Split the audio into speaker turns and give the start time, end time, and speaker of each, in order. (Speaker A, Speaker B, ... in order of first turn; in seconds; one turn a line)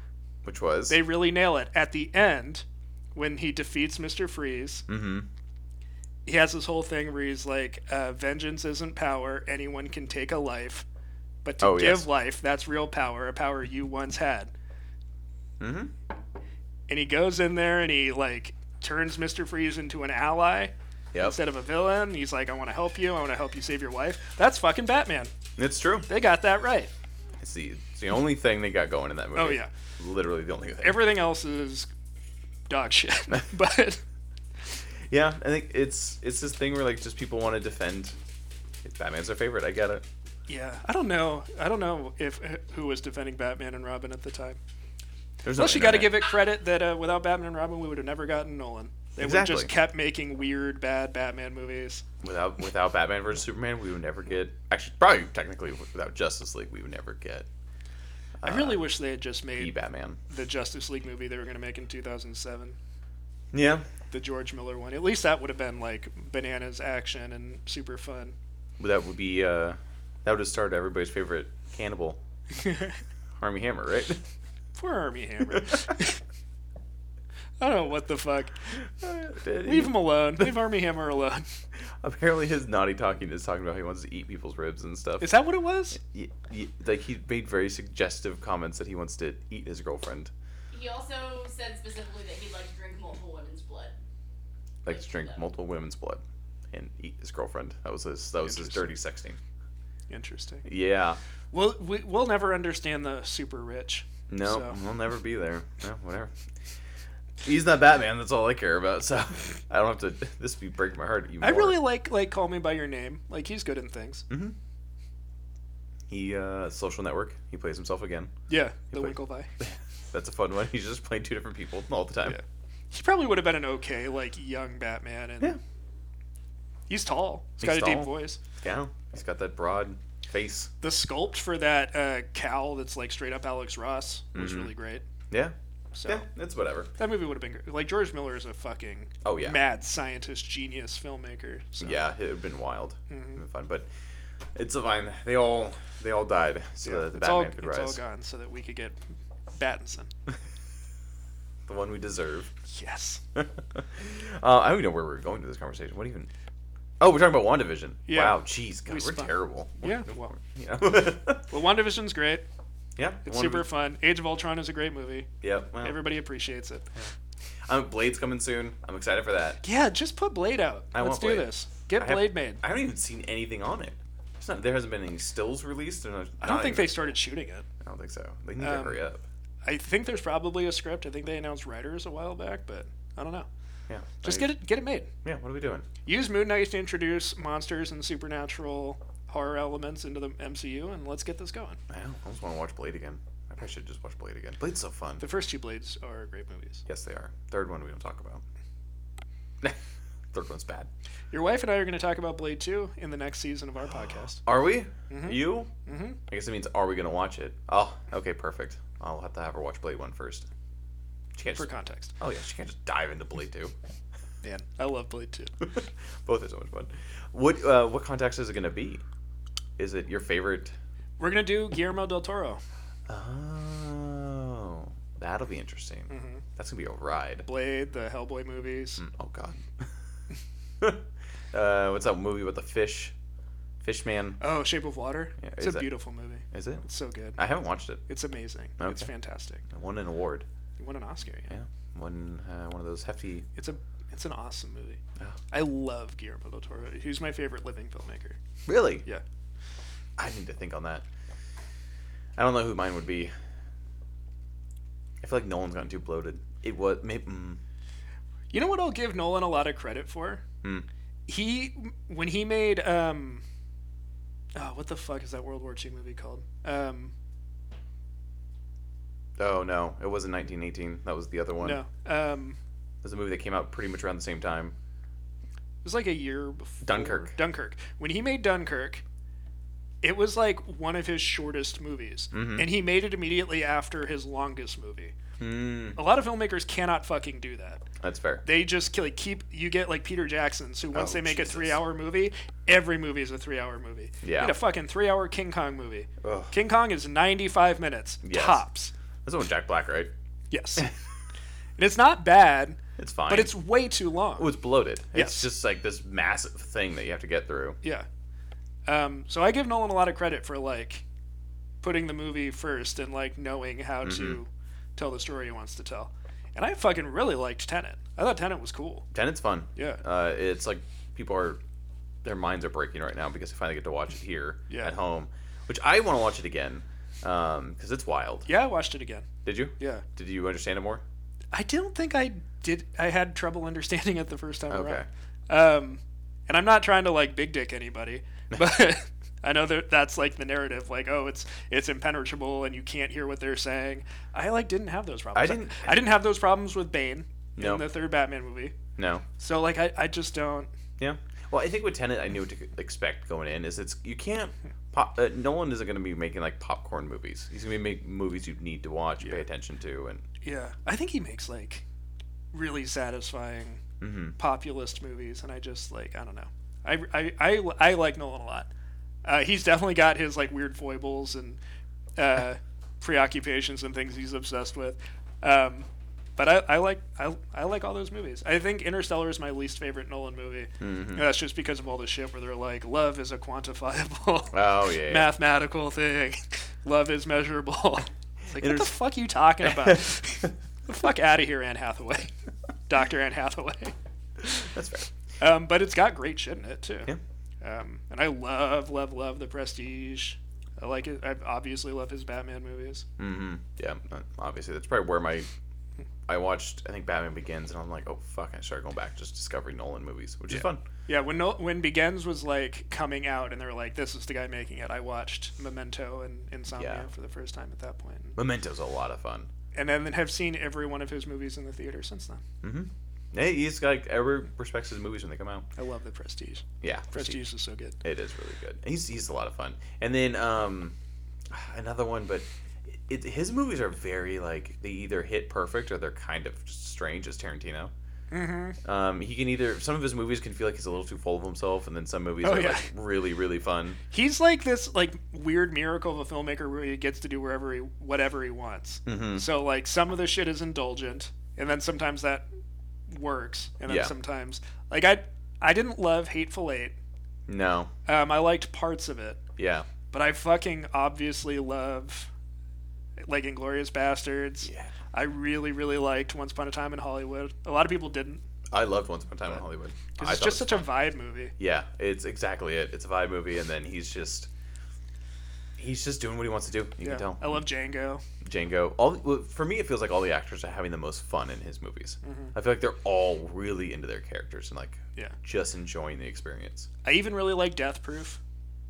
Speaker A: 0.4-1.0
Speaker B: 0.9-4.8
Speaker A: 4.9-5.3
Speaker B: 6.2-10.8
Speaker B: 11.4-14.5
Speaker A: 11.6-12.1
Speaker A: 15.6-15.9
Speaker B: 16.9-25.3
Speaker A: 21.1-21.4
Speaker A: 25.6-26.1
Speaker B: 26.1-26.9
Speaker A: 27.4-31.1
Speaker B: 29.3-29.7
Speaker B: 30.8-31.9
Speaker B: 32.7-34.0
Speaker A: 35.1-38.2
Speaker A: 38.8-40.0
Speaker B: 40.5-44.6
Speaker A: 45.4-46.2
Speaker B: 45.5-52.0
Speaker A: 49.2-49.7
Speaker A: 52.2-57.5
Speaker A: 58.4-58.9
Speaker B: 58.4-59.7
Speaker A: 59.6-60.2
Speaker B: 60.3-62.8
Speaker A: 63.5-63.9
Speaker B: 64.1-68.3
Speaker A: 68.8-72.2
Speaker B: 72.6-73.0
Speaker A: 73.4-74.2
Speaker B: 74.8-76.2
Speaker A: 75.5-75.8
Speaker B: 77.6-78.7
Speaker A: 78.8-80.5
Speaker B: 79.6-81.5
Speaker A: 82.0-85.3
Speaker B: 85.2-86.0
Speaker A: 85.9-90.3
Speaker C: 90.7-93.9
Speaker A: 94.8-99.4
Speaker C: 94.9-95.4
Speaker B: 98.4-98.9
Speaker B: 100.1-100.7
Speaker A: 100.6-101.2
Speaker B: 101.5-104.8
Speaker A: 104.3-106.4
Speaker A: 107.4-111.8
Speaker B: 111.4-114.3
Speaker A: 114.3-114.6
Speaker A: 116.1-118.3
Speaker B: 118.5-119.5
Speaker A: 118.9-122.4
Speaker B: 122.2-125.6
Speaker B: 126.9-128.4
Speaker A: 127.6-130.7
Speaker B: 130.8-135.0
Speaker A: 134.3-134.7
Speaker B: 135.9-136.2
Speaker A: 136.1-136.9
Speaker B: 137.0-142.0
Speaker A: 139.2-139.6
Speaker A: 141.8-143.9
Speaker B: 143.1-143.4
Speaker A: 144.5-148.0
Speaker B: 146.8-149.0
Speaker B: 149.5-150.1
Speaker A: 151.7-152.5
Speaker B: 152.7-153.2
Speaker A: 153.3-156.3
Speaker A: 157.0-161.5
Speaker B: 158.1-160.3
Speaker B: 161.5-162.4
Speaker A: 163.0-163.7
Speaker B: 163.2-165.3
Speaker A: 165.4-166.0
Speaker B: 165.8-166.9
Speaker A: 167.7-169.6
Speaker B: 169.6-172.6
Speaker A: 170.9-177.1
Speaker B: 176.4-177.7
Speaker A: 177.8-179.2
Speaker B: 178.6-179.0
Speaker B: 179.6-183.5
Speaker A: 183.9-184.5
Speaker B: 184.2-185.1
Speaker A: 185.2-185.9
Speaker B: 186.0-191.8
Speaker A: 191.9-195.2
Speaker B: 195.2-196.8
Speaker A: 196.9-198.4
Speaker A: 200.3-200.9
Speaker B: 201.3-204.4
Speaker A: 204.4-205.7
Speaker B: 205.1-206.2
Speaker A: 206.3-210.5
Speaker A: 211.3-211.7
Speaker B: 211.5-212.1
Speaker A: 212.2-213.7
Speaker B: 214.4-215.5
Speaker A: 215.6-219.0
Speaker A: 219.8-220.7
Speaker B: 221.2-222.6
Speaker A: 223.1-227.5
Speaker B: 226.1-226.4
Speaker B: 227.4-229.0
Speaker A: 229.0-229.9
Speaker A: 230.8-233.1
Speaker A: 233.8-234.4
Speaker B: 234.4-237.4
Speaker A: 235.4-235.9
Speaker A: 236.5-236.8
Speaker A: 237.4-238.0
Speaker B: 238.1-239.6
Speaker A: 238.8-239.1
Speaker A: 239.7-240.4
Speaker B: 240.8-241.5
Speaker A: 241.5-243.5
Speaker B: 243.6-245.0
Speaker B: 245.5-248.4
Speaker A: 248.7-249.0
Speaker A: 250.2-251.0
Speaker A: 252.4-253.3
Speaker A: 255.2-257.6
Speaker B: 258.5-260.4
Speaker B: 261.3-263.4
Speaker B: 264.5-267.1
Speaker A: 269.4-271.8
Speaker B: 271.6-272.6
Speaker A: 273.0-274.7
Speaker B: 275.8-279.0
Speaker A: 276.8-277.3
Speaker B: 280.0-285.1
Speaker A: 282.3-282.7
Speaker A: 285.4-286.0
Speaker B: 285.9-287.8
Speaker A: 288.0-288.4
Speaker B: 288.4-298.9
Speaker A: 290.9-291.8
Speaker A: 294.2-294.6
Speaker A: 296.2-296.5
Speaker A: 298.2-298.6
Speaker A: 299.2-300.1
Speaker B: 300.5-300.9
Speaker B: 301.8-304.5
Speaker A: 303.0-303.5
Speaker A: 304.4-307.8
Speaker B: 305.1-305.5
Speaker B: 308.9-311.0
Speaker B: 311.8-319.1
Speaker A: 314.0-314.4
Speaker A: 319.1-321.6
Speaker B: 319.8-320.0
Speaker A: 322.2-328.5
Speaker B: 324.7-324.9
Speaker B: 328.5-329.3
Speaker A: 329.4-331.0
Speaker B: 329.8-330.0
Speaker B: 331.5-348.8
Speaker A: 334.7-335.1
Speaker A: 345.3-346.1
Speaker A: 347.6-347.9
Speaker A: 349.0-349.2
Speaker B: 349.4-350.7
Speaker A: 351.0-360.2
Speaker B: 360.4-361.8
Speaker B: 362.5-363.8
Speaker A: 364.0-364.4
Speaker B: 364.4-368.7
Speaker B: 369.2-371.6
Speaker B: 372.2-392.3
Speaker A: 380.8-381.3
Speaker A: 384.5-385.3
Speaker A: 388.5-388.9
Speaker A: 389.6-390.5
Speaker B: 392.9-394.6
Speaker A: 394.6-395.1
Speaker B: 395.4-403.1
Speaker A: 403.2-405.5
Speaker A: 406.3-410.8
Speaker B: 410.5-418.4
Speaker A: 416.7-417.1
Speaker A: 418.4-419.5
Speaker B: 419.7-422.4
Speaker A: 422.6-425.7
Speaker B: 425.8-428.0
Speaker A: 426.8-427.4
Speaker A: 428.0-430.9
Speaker A: 431.5-437.9
Speaker B: 438.3-438.8
Speaker A: 438.8-444.0
Speaker B: 442.4-442.9
Speaker B: 444.1-452.4
Speaker A: 449.1-449.4
Speaker B: 453.1-456.9
Speaker A: 453.9-454.1
Speaker A: 457.5-457.9
Speaker B: 458.1-459.4
Speaker A: 459.6-459.9
Speaker B: 460.1-462.3
Speaker B: 463.2-468.4
Speaker A: 464.6-464.9
Speaker A: 468.7-470.9
Speaker B: 470.2-471.5
Speaker A: 471.6-474.5
Speaker A: 475.8-477.6
Speaker B: 477.0-478.2
Speaker A: 478.4-486.9
Speaker B: 482.2-482.5
Speaker B: 487.0-488.4